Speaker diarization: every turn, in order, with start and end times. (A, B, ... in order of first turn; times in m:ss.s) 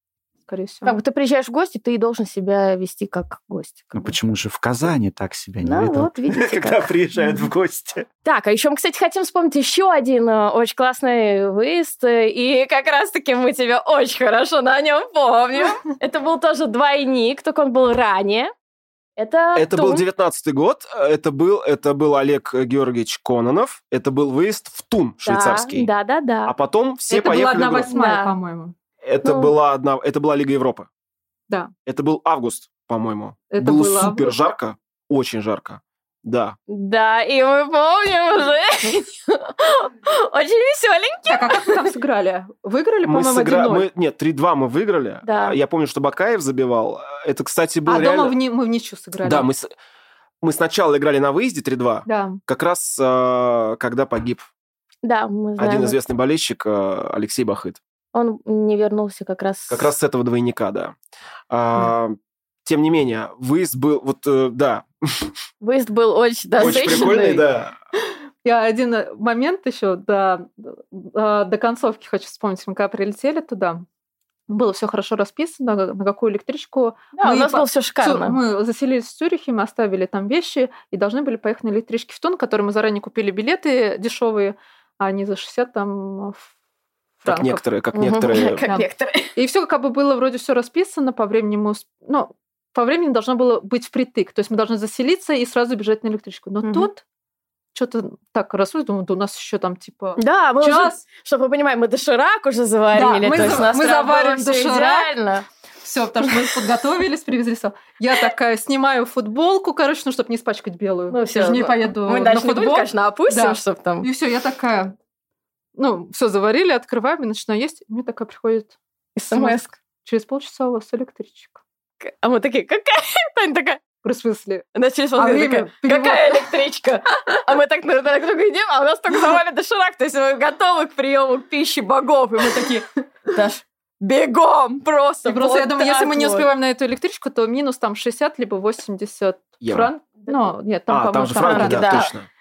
0:00.5-0:01.0 A
0:00.8-0:04.2 B
0:03.9-0:08.1 C
0:05.6-0:06.9 B
0:08.2-0:18.5 B
0:19.2-0:20.0 B
0:19.6-0:25.9 D
0:25.2-0:26.5 B
0:26.5-0:27.9 D
0:27.1-0:28.8 A
0:27.9-0:28.3 B
0:29.0-0:30.9 D
0:29.2-0:29.5 B
0:31.9-0:36.6 D
0:33.5-0:34.4 A
0:36.7-0:41.8 B
0:41.3-0:43.9 A
0:43.1-0:48.4 D
0:45.2-0:45.6 B
0:47.9-0:49.5 A
0:49.2-0:49.7 D
0:50.4-0:54.5 D
0:52.1-0:52.4 A
0:55.0-0:56.0 B
0:55.6-0:57.8 D
0:58.1-0:59.9 B
0:59.7-1:01.0 D
1:01.5-1:05.3 D
1:05.6-1:07.4 B
1:06.6-1:07.8 D
1:08.4-1:13.8 A
1:14.5-1:26.5 A
1:17.2-1:18.4 B
1:27.2-1:27.6 A
1:27.3-1:28.6 D
1:27.9-1:29.3 B
1:28.7-1:37.0 A
1:36.6-1:36.9 B
1:37.7-1:41.0 A
1:40.2-1:45.5 B
1:42.9-1:45.1 A
1:45.8-1:55.0 A
1:51.1-1:54.1 B
1:55.8-1:58.8 A
1:59.2-1:59.7 B
1:59.3-2:01.6 A
2:02.0-2:03.8 B
2:04.0-2:06.5 A
2:04.8-2:16.5 B
2:15.2-2:22.1 A
2:19.6-2:19.9 D
2:20.9-2:22.3 D
2:21.3-2:22.1 B